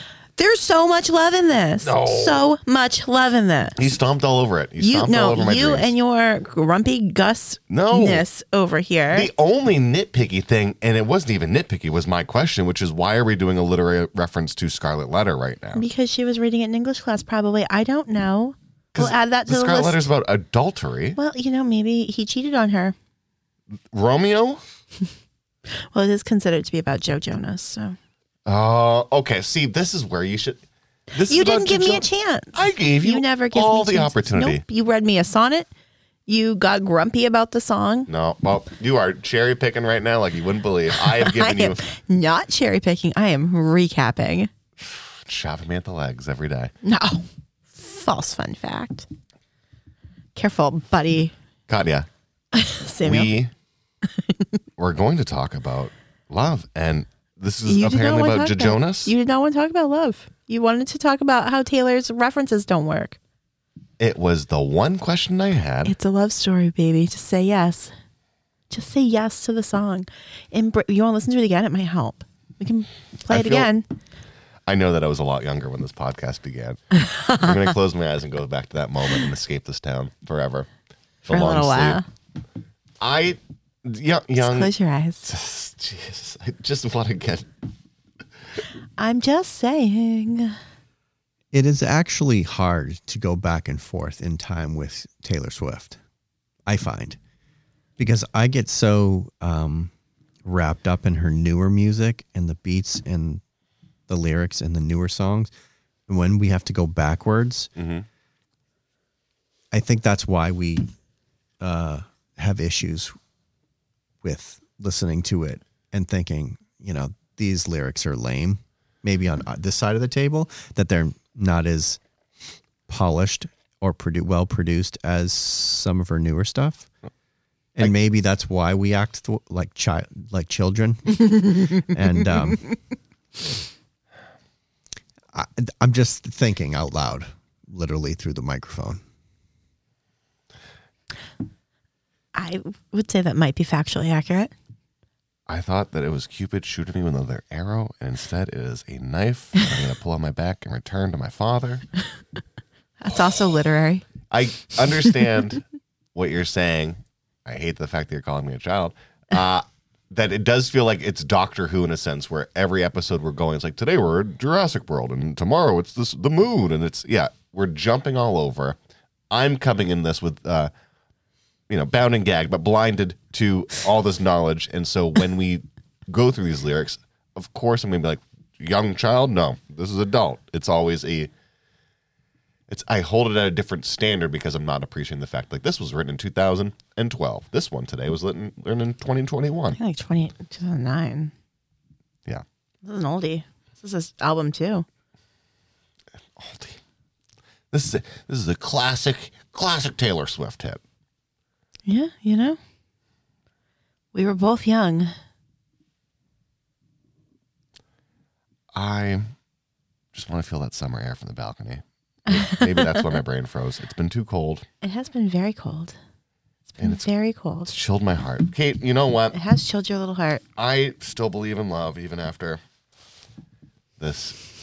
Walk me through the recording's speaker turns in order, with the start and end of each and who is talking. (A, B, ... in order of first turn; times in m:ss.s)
0:00.4-0:03.8 A
0:01.8-0:02.4 B
0:03.8-0:05.9 B
0:04.8-0:09.3 A
0:07.7-0:08.2 B
0:09.1-0:15.8 B
0:15.8-0:20.1 A
0:19.0-0:21.2 B
0:21.2-0:23.0 A
0:23.9-0:24.6 B
0:25.9-0:28.0 A
0:28.5-0:30.6 B
0:31.1-0:34.6 B
0:31.3-0:35.7 A
0:36.3-0:38.1 A
0:38.1-0:41.8 B
0:41.0-0:44.5 A
0:45.2-0:46.7 B
0:46.8-0:49.1 A
0:50.4-0:51.3 A
0:51.7-0:52.1 B
0:52.5-0:53.3 A
0:53.0-0:53.5 B
0:54.2-0:54.5 A
0:54.8-0:59.1 B
0:57.7-1:03.2 A
1:04.0-1:05.9 B
1:05.8-1:07.9 A
1:08.7-1:13.8 A
1:13.3-1:13.7 B
1:14.7-1:16.8 B
1:16.9-1:17.7 A
1:17.3-1:20.7 B
1:21.2-1:22.0 B
1:21.3-1:22.1 A
1:23.0-1:24.7 B
1:24.4-1:25.3 A
1:25.2-1:27.5 B
1:29.0-1:30.6 A
1:31.5-1:36.0 C
1:36.7-1:37.2 C
1:38.0-1:39.9 C
1:40.4-1:43.4 C
1:44.1-1:45.5 C
1:46.1-1:47.7 C
1:47.8-1:48.1 B
1:49.7-1:50.9 C
1:51.6-1:53.1 C
1:54.2-2:02.0 C
2:02.9-2:06.9 C
2:07.8-2:12.7 C
2:15.3-2:19.0 C
2:22.4-2:24.5 A
2:25.5-2:31.8 B
2:33.0-2:34.1 A
2:34.3-2:35.6 B
2:36.2-2:48.8 B
2:49.3-2:50.7 B
2:51.7-3:01.3 B
3:02.7-3:09.8 B
3:09.8-3:11.3 A
3:12.8-3:14.9 A
3:16.4-3:16.8 B
3:17.7-3:20.8 B
3:21.9-3:22.6 A
3:24.1-3:25.1 A
3:28.7-3:29.3 B
3:30.1-3:34.6 B
3:32.3-3:33.0 A
3:34.8-3:36.0 A
3:36.7-3:37.7 A
3:37.7-3:39.4 B
3:39.3-3:40.4 A
3:40.6-3:42.6 B
3:44.0-3:44.4 B